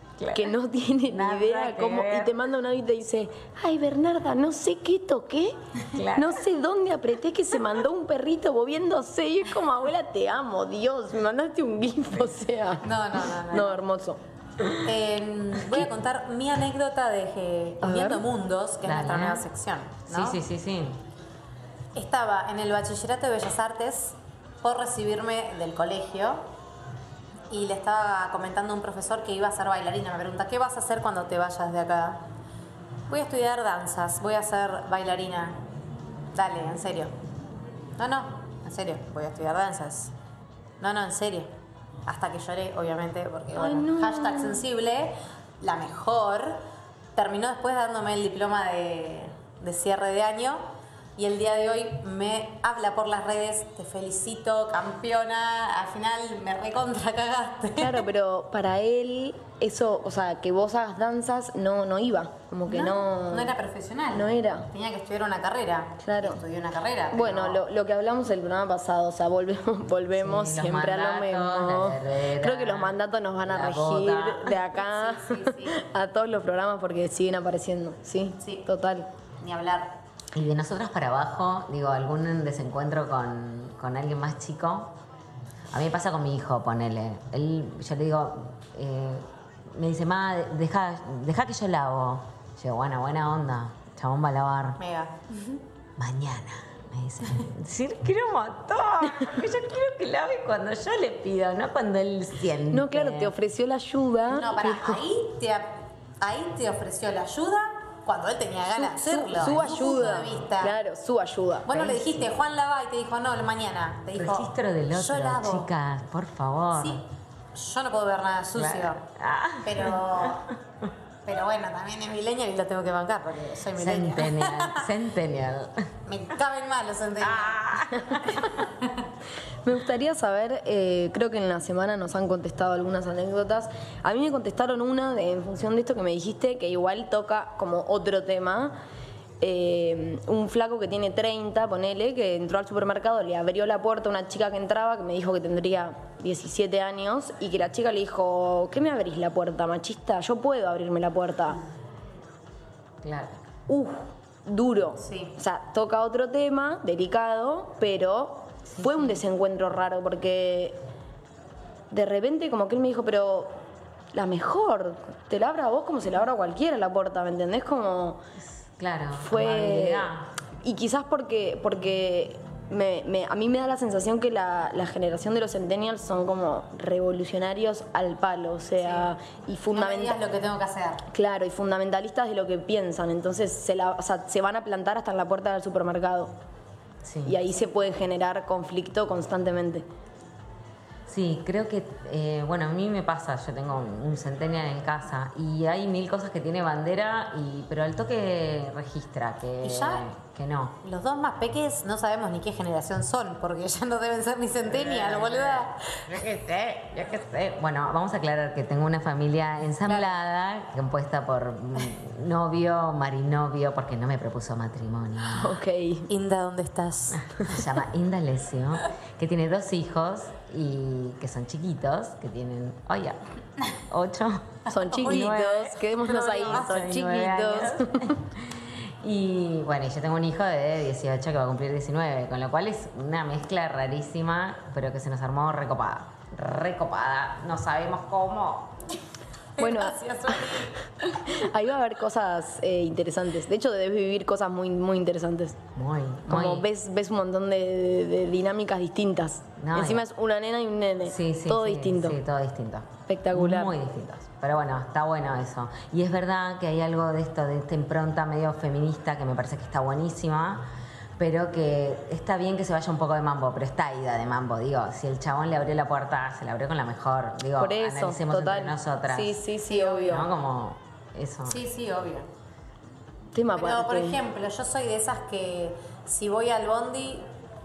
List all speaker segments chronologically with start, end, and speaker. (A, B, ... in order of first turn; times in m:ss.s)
0:00.2-0:00.5 A
0:00.3-0:05.6 B
0:01.1-0:02.3 A
0:05.9-0:06.4 A
0:06.1-0:12.8 B
0:12.8-0:13.8 C
0:13.4-0:14.2 B
0:14.8-0:20.4 C
0:17.8-0:18.2 B
0:18.8-0:19.4 A
0:20.1-0:21.0 A
0:21.9-0:26.4 C
0:27.5-0:32.2 C
0:33.1-0:35.6 C
0:36.3-0:37.1 C
0:38.0-0:40.1 C
0:40.8-0:41.5 C
0:42.1-0:46.6 C
0:43.6-0:44.6 B
0:47.1-0:50.6 C
0:51.2-0:58.0 C
0:57.8-1:03.5 B
1:02.7-1:07.6 C
1:04.1-1:04.7 B
1:06.0-1:06.4 B
1:07.1-1:19.1 B
1:10.1-1:14.6 A
1:14.6-1:15.8 C
1:18.4-1:18.6 C
1:19.4-1:19.9 C
1:20.3-1:24.9 A
1:25.7-1:34.8 A
1:34.8-1:35.6 C
1:36.0-1:43.3 A
1:42.7-1:45.0 B
1:44.3-1:50.8 C
1:48.7-1:52.0 B
1:49.5-1:49.9 A
1:51.6-1:55.7 C
1:54.2-1:57.0 A
1:56.7-1:57.0 C
1:57.5-1:59.0 C
1:58.5-2:00.9 A
1:59.6-2:00.5 C
2:01.2-2:04.9 C
2:03.7-2:05.9 A
2:06.1-2:09.0 C
2:07.2-2:08.7 A
2:09.6-2:18.8 B
2:19.4-2:31.6 B
2:33.0-2:33.4 A
2:33.7-2:40.8 B
2:35.0-2:35.3 C
2:38.7-2:39.2 A
2:41.9-2:43.5 B
2:44.1-2:48.2 B
2:48.8-2:50.3 A
2:49.2-3:00.2 B
2:58.8-2:59.2 C
2:59.7-3:01.0 C
3:01.1-3:06.3 B
3:07.0-3:07.4 A
3:07.2-3:09.8 B
3:11.1-3:20.8 A
3:19.6-3:20.0 C
3:20.8-3:26.1 C
3:24.7-3:35.6 A
3:29.8-3:30.2 C
3:35.3-3:36.1 B
3:36.1-3:37.5 C
3:37.1-3:43.2 A
3:43.7-3:58.8 A
3:44.7-3:48.2 B
3:44.8-3:45.4 C
3:46.0-3:46.7 C
3:59.6-4:00.9 C
3:59.6-4:00.0 B
4:01.1-4:05.6 B
4:05.7-4:06.7 A
4:06.3-4:12.2 B
4:09.6-4:10.0 A
4:11.1-4:20.6 A
4:13.1-4:13.8 B
4:21.2-4:29.4 A
4:27.6-4:30.3 B
4:29.6-4:30.3 C
4:30.0-4:31.6 A
4:31.5-4:32.3 C
4:33.3-4:34.2 B
4:33.5-4:37.3 C